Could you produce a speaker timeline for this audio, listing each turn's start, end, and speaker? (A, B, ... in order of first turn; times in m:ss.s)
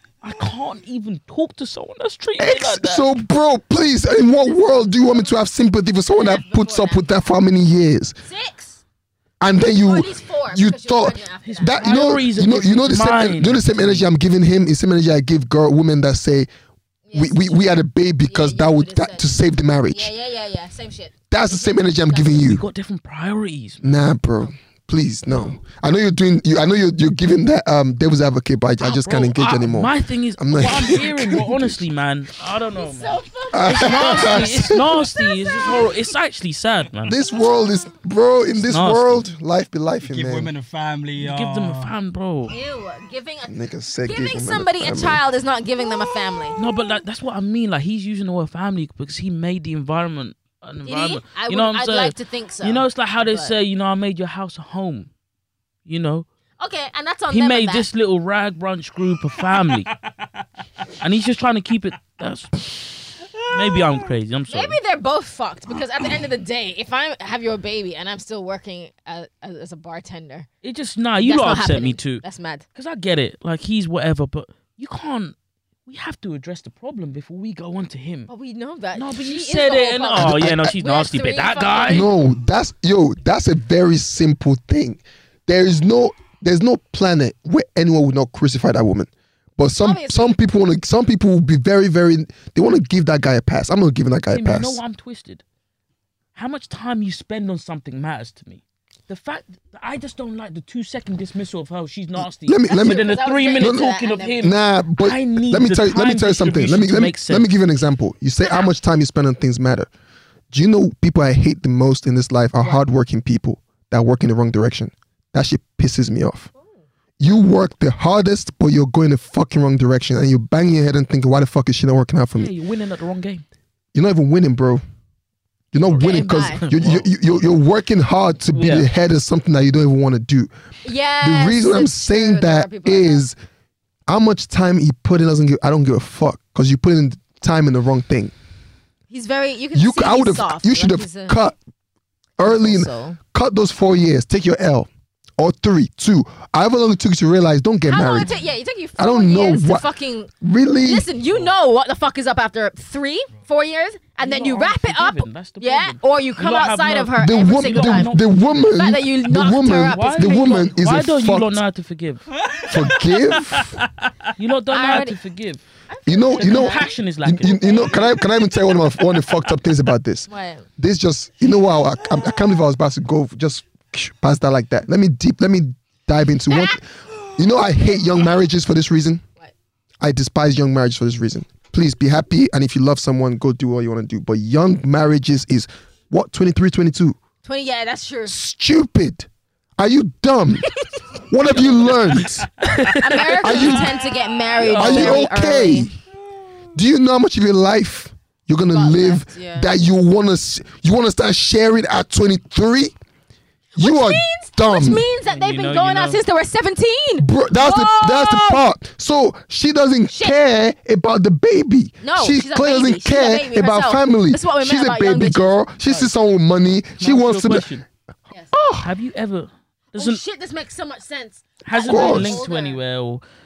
0:00.2-0:03.0 A
0:02.4-0:08.2 B
0:06.1-0:07.0 C
0:08.2-0:08.8 C
0:09.4-0:16.5 B
0:09.6-0:11.8 C
0:11.4-0:14.1 A
0:17.1-0:19.3 C
0:17.1-0:20.1 B
0:19.9-0:22.3 C
0:21.3-0:22.6 B
0:22.3-0:23.8 A
0:23.8-0:31.8 B
0:28.8-0:37.2 A
0:32.7-0:35.9 C
0:33.5-0:34.8 B
0:37.1-0:40.5 B
0:38.6-0:39.2 A
0:40.0-0:41.9 D
0:41.2-0:42.6 A
0:42.5-0:46.6 C
0:43.5-0:45.2 B
0:46.6-0:55.1 A
0:50.8-0:53.5 C
0:55.9-0:56.3 A
0:56.6-0:57.9 C
0:57.3-0:59.9 A
0:59.4-1:00.4 D
1:01.0-1:04.8 A
1:03.2-1:04.1 D
1:04.5-1:10.5 C
1:10.6-1:12.2 A
1:11.2-1:12.7 C
1:12.8-1:15.4 A
1:15.9-1:18.3 A
1:18.3-1:22.1 C
1:19.0-1:22.1 A
1:20.2-1:20.8 B
1:21.9-1:34.8 B
1:29.8-1:30.4 C
1:34.3-1:35.4 A
1:36.4-1:47.5 A
1:42.2-1:49.9 B
1:42.7-1:44.5 C
1:50.5-1:56.5 B
1:57.2-2:02.5 B
2:02.4-2:03.4 A
2:03.9-2:04.8 B
2:05.7-2:10.5 B
2:06.0-2:06.6 C
2:06.1-2:07.1 A
2:08.5-2:08.9 A
2:10.8-2:13.2 C
2:11.2-2:13.4 B
2:14.1-2:18.3 B
2:19.1-2:21.4 C
2:19.7-2:21.6 B
2:22.4-2:28.4 B
2:22.4-2:23.2 C
2:27.9-2:30.3 C
2:29.0-2:31.1 B
2:30.8-2:38.2 C
2:34.2-2:38.5 A
2:37.2-2:41.6 B
2:38.7-2:40.7 C
2:39.7-2:42.3 A
2:42.4-2:44.1 D
2:42.7-2:43.8 B
2:44.4-2:45.6 A
2:44.7-2:45.2 C
2:45.9-2:46.9 C
2:46.1-2:59.2 B
2:46.4-2:48.1 A
2:47.9-2:48.1 D
2:50.3-2:50.7 C
2:52.1-2:52.5 D
3:00.0-3:07.2 B
3:07.4-3:08.3 C
3:08.3-3:10.8 B
3:11.3-3:12.5 B
3:11.5-3:13.9 A
3:13.0-3:15.9 C
3:13.4-3:14.0 B
3:14.6-3:15.2 A
3:14.7-3:15.9 B
3:16.8-3:23.0 B
3:18.7-3:19.7 C
3:23.8-3:28.6 C
3:23.8-3:25.0 B
3:25.2-3:26.2 A
3:27.2-3:37.7 B
3:30.1-3:30.4 C
3:32.0-3:35.6 C
3:35.8-3:36.1 A
3:37.0-3:37.8 A
3:38.5-3:38.9 B
3:38.8-3:40.2 A
3:40.0-3:42.8 C
3:41.7-3:43.2 A
3:41.9-3:42.4 B